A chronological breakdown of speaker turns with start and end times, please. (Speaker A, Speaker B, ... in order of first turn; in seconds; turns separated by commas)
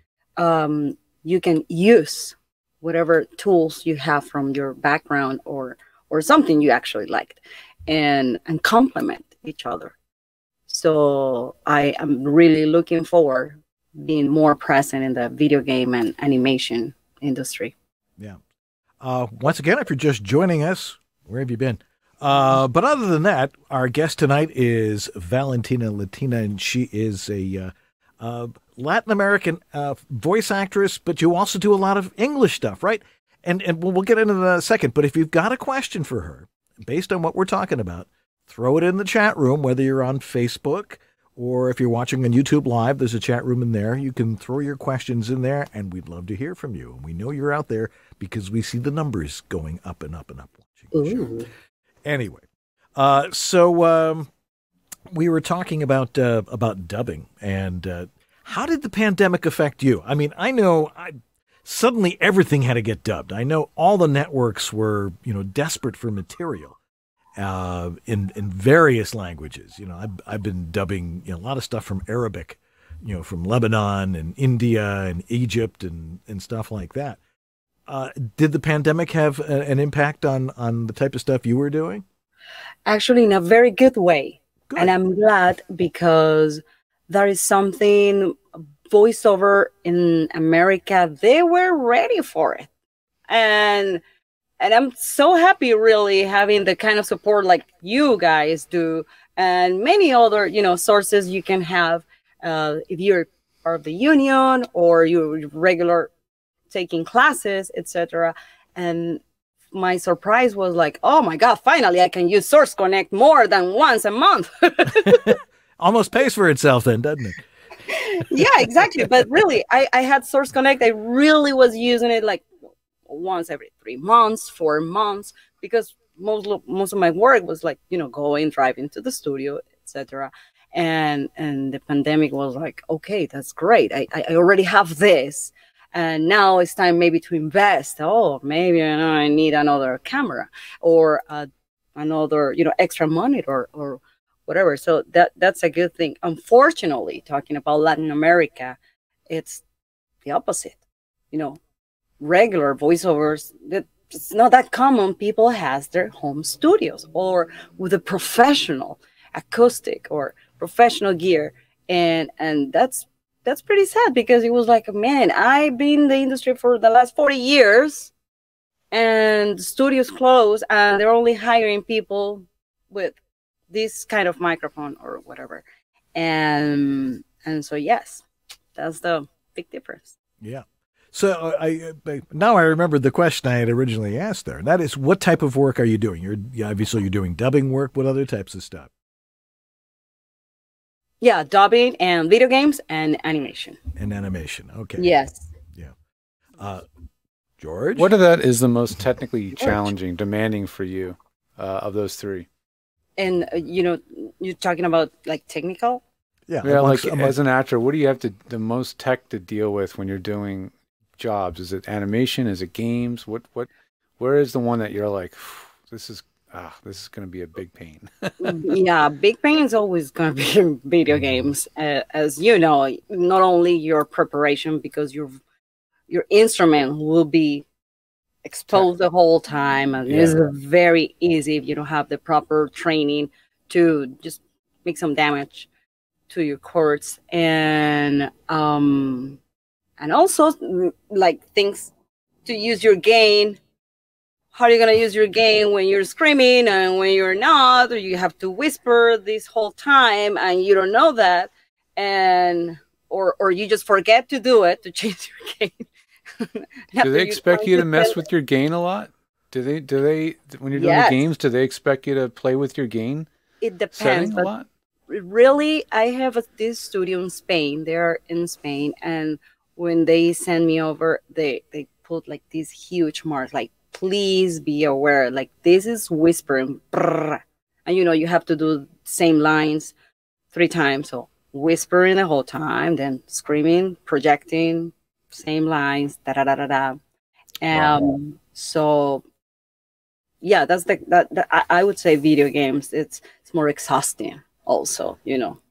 Speaker A: 0.4-9.9, Speaker A: 10.7-17.7, Speaker B: 19.0-51.4, Speaker A: 50.9-51.5, Speaker B: 52.0-52.4, Speaker B: 53.0-54.3, Speaker B: 55.1-66.8, Speaker B: 67.4-77.2, Speaker B: 77.9-82.0, Speaker A: 82.9-92.7, Speaker A: 93.3-94.0, Speaker A: 94.6-106.1, Speaker A: 106.7-115.4, Speaker B: 115.0-117.5, Speaker A: 117.9-122.5, Speaker B: 118.4-119.1, Speaker A: 123.1-148.8, Speaker A: 149.3-149.6, Speaker A: 150.3-150.8, Speaker A: 151.3-151.6, Speaker A: 152.2-168.1, Speaker A: 168.9-173.2, Speaker A: 173.7-175.6, Speaker A: 176.2-178.2, Speaker A: 178.8-180.1, Speaker B: 180.4-188.9, Speaker A: 191.2-193.8, Speaker B: 194.0-195.1, Speaker A: 195.0-195.5, Speaker B: 196.6-196.9, Speaker B: 197.6-198.1, Speaker C: 198.0-202.5, Speaker A: 203.2-206.0, Speaker B: 206.5-207.4, Speaker C: 206.6-218.7, Speaker A: 218.4-225.4, Speaker A: 226.1-227.7, Speaker A: 228.5-235.7, Speaker C: 230.1-230.4, Speaker A: 236.3-239.4, Speaker A: 240.0-241.9, Speaker A: 242.4-243.6, Speaker A: 244.5-255.8, Speaker A: 256.4-258.2, Speaker C: 257.0-263.3, Speaker A: 260.7-261.2, Speaker A: 263.6-264.5, Speaker C: 263.9-264.7, Speaker A: 265.1-279.9, Speaker A: 280.5-287.0, Speaker A: 287.6-289.2, Speaker A: 290.4-295.6